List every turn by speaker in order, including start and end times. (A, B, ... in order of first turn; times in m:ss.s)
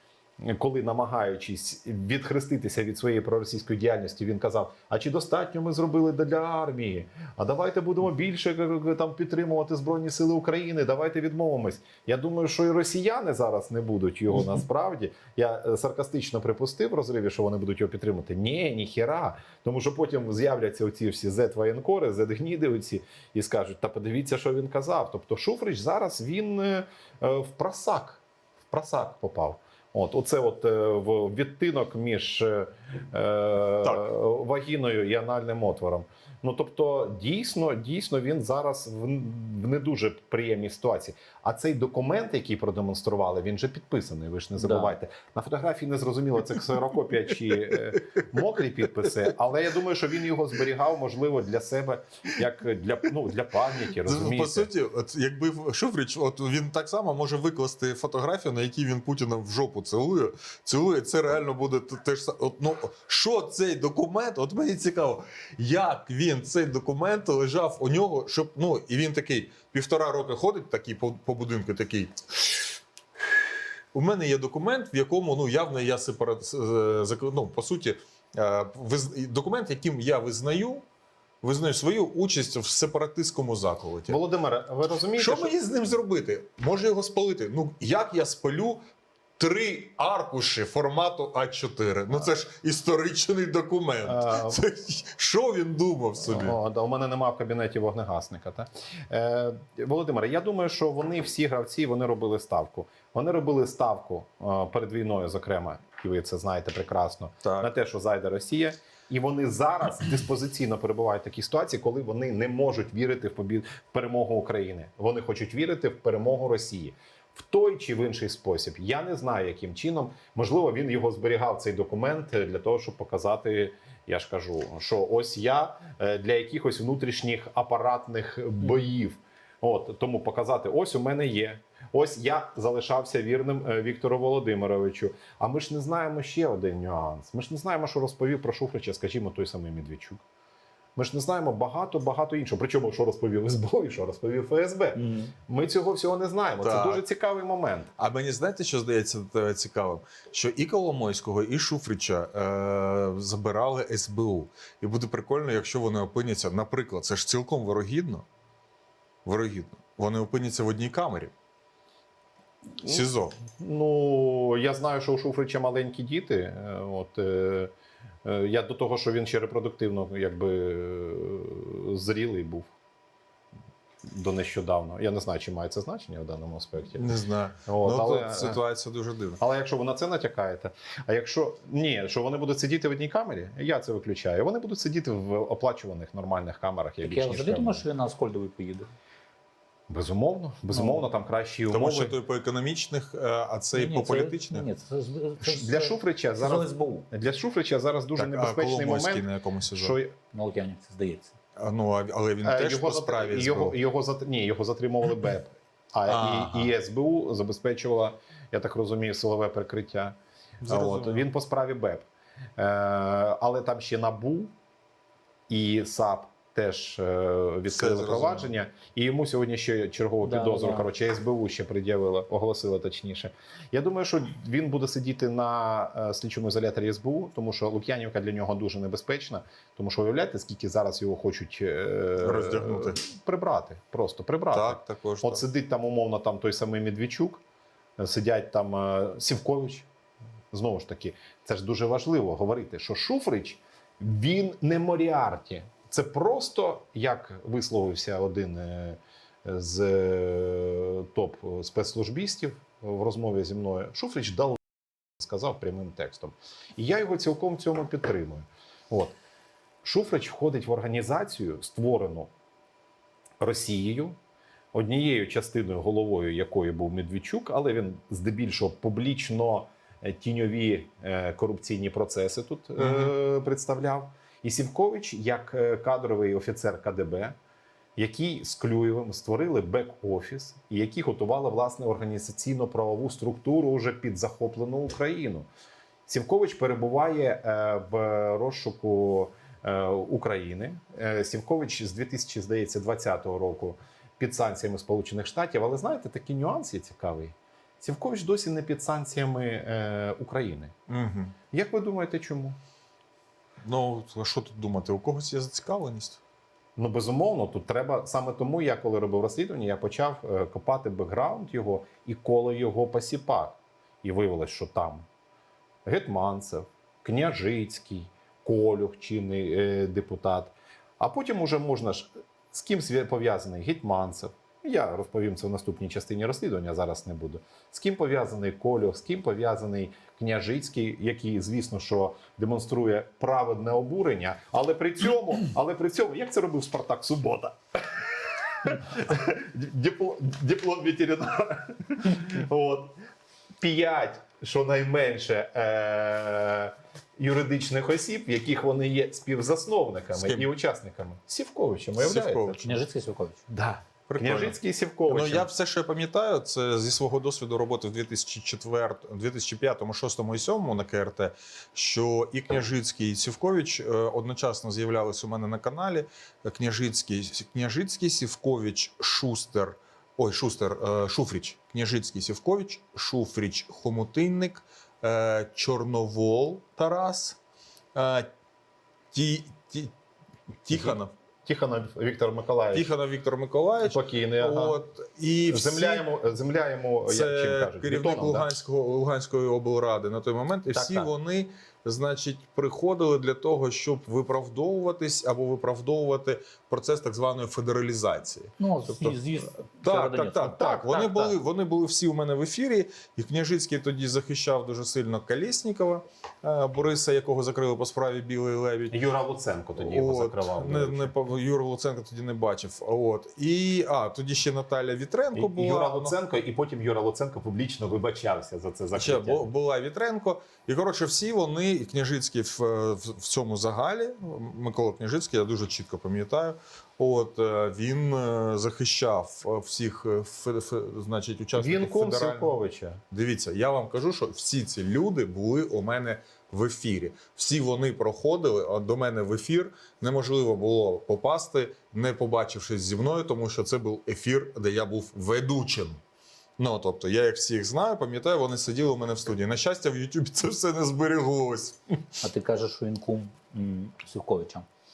0:00.4-0:54.7 A
0:44.6-0:44.9 B
0:54.0-1:12.8 C
1:13.9-1:20.8 C
1:21.4-1:24.2 C
1:24.1-1:25.5 A
1:25.2-1:28.8 C
1:29.4-1:36.6 C
1:34.0-1:34.6 A
1:36.2-2:20.2 A
1:47.4-1:47.7 C
2:21.0-2:27.9 A
2:25.0-2:25.3 B
2:26.6-2:27.0 C
2:28.0-2:38.2 C
2:39.2-2:41.3 C
2:42.8-2:47.7 A
2:42.8-2:43.4 C
2:48.2-2:52.7 A
2:54.0-2:57.1 A
2:57.0-2:59.4 C
2:57.6-2:58.6 A
2:59.4-3:07.8 A
3:07.0-3:08.9 B
3:09.9-3:12.2 A
3:10.7-3:11.0 B
3:11.7-3:14.6 C
3:13.7-3:17.1 B
3:15.4-3:20.1 A
3:18.2-3:20.0 C
3:20.3-3:21.3 B
3:21.6-3:23.8 C
3:22.4-3:32.1 A
3:26.1-3:26.7 C
3:30.6-3:31.2 C
3:32.6-3:34.5 A
3:35.5-3:57.4 A
3:37.7-3:38.5 C
3:40.2-3:40.9 B
3:52.2-3:53.0 C
3:54.5-3:55.4 C
3:58.0-3:59.9 A
4:00.5-4:19.1 A
4:19.8-4:22.3 A
4:23.4-4:24.2 A
4:24.7-4:37.4 A
4:32.8-4:33.1 C
4:38.0-4:45.5 A
4:46.1-5:00.7 A
5:00.9-5:01.3 C
5:01.5-5:02.6 A
5:03.6-5:06.2 C
5:06.8-5:15.0 A
5:15.8-5:37.6 A
5:38.6-5:43.0 A
5:43.6-5:52.7 A
5:50.1-5:50.5 C
5:52.0-5:52.7 C
5:52.6-5:53.4 B
5:53.5-5:55.5 A
5:54.1-6:17.4 C
6:17.9-6:18.3 C
6:19.1-6:19.9 C
6:20.6-6:21.1 C
6:20.7-6:22.9 A
6:22.7-6:26.0 C
6:23.8-6:24.8 A
6:25.5-6:28.6 A
6:27.0-6:39.2 C
6:30.7-6:31.1 A
6:38.6-6:40.8 B
6:39.8-6:49.0 C
6:40.6-6:41.3 A
6:48.9-6:51.1 A
6:49.8-6:56.2 C
6:55.3-6:59.5 A
6:58.9-7:12.6 C
7:11.6-7:13.0 A
7:13.1-7:26.0 C
7:26.6-7:32.0 C
7:32.2-7:34.6 B